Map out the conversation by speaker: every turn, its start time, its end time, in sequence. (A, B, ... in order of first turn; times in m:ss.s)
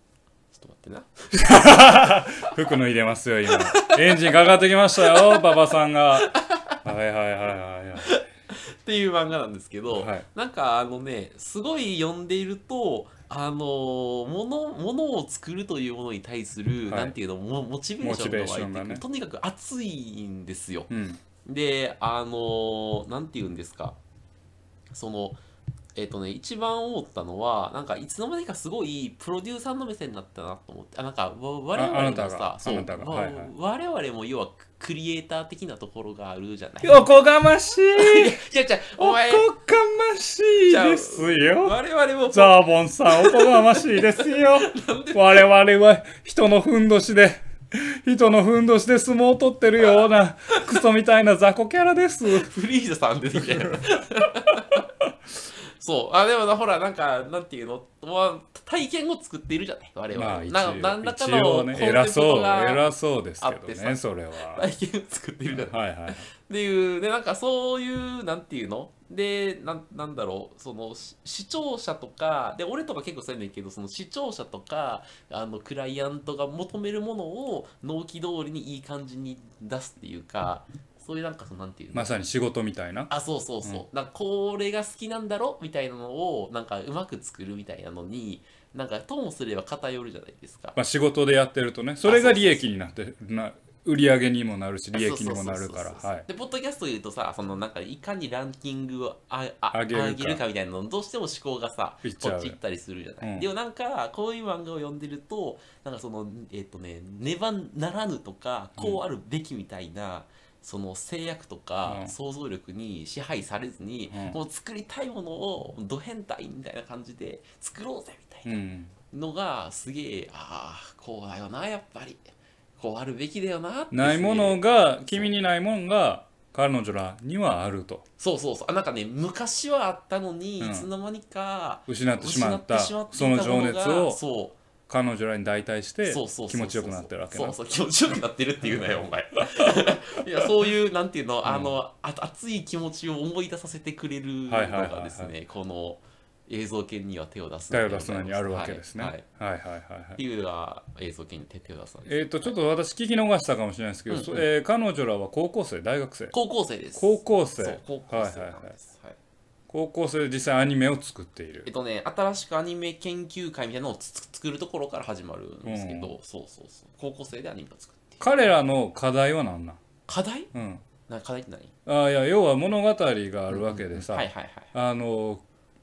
0:00.5-0:02.5 A
0:01.3-0:06.3 B
0:03.5-0:05.5 A
0:06.1-0:06.8 A
0:06.8-0:08.2 B
0:08.0-0:20.9 A
0:09.9-0:10.2 B
0:16.9-0:17.1 B
0:18.0-0:19.0 B
0:20.9-0:21.2 B
0:21.4-0:24.0 A
0:24.9-0:25.4 A
0:26.0-0:37.0 A
0:31.7-0:33.5 B
0:36.8-0:38.4 B
0:38.0-0:39.5 A
0:39.0-0:41.8 B
0:40.6-0:45.4 A
0:42.3-0:52.5 B
0:52.2-0:54.8 A
0:53.4-0:53.9 B
0:55.6-1:22.1 A
1:00.1-1:04.6 B
1:05.5-1:06.2 B
1:21.9-1:23.1 B
1:23.1-1:30.8 A
1:30.8-1:36.2 B
1:32.0-1:32.7 A
1:34.9-1:58.5 A
1:39.7-1:40.4 B
1:42.0-1:42.6 B
1:43.2-1:43.5 B
1:51.8-1:52.1 B
1:54.1-1:54.4 B
1:58.4-1:58.9 B
1:59.1-2:05.3 A
2:03.9-2:08.0 B
2:08.2-2:14.6 A
2:10.6-2:10.9 B
2:11.9-2:14.2 B
2:14.9-2:17.6 B
2:16.0-2:29.2 A
2:21.4-2:21.8 B
2:24.5-2:25.3 B
2:27.7-2:30.2 B
2:30.2-2:32.3 A
2:32.0-2:36.3 B
2:34.1-2:34.4 A
2:36.3-2:39.2 A
2:36.9-2:38.7 B
2:39.7-2:41.7 B
2:41.6-2:48.3 A
2:45.6-2:46.2 B
2:48.2-2:49.8 B
2:50.1-2:50.5 A
2:50.5-2:50.8 B
2:51.1-2:51.7 A
2:51.8-2:55.4 B
2:53.5-2:54.7 A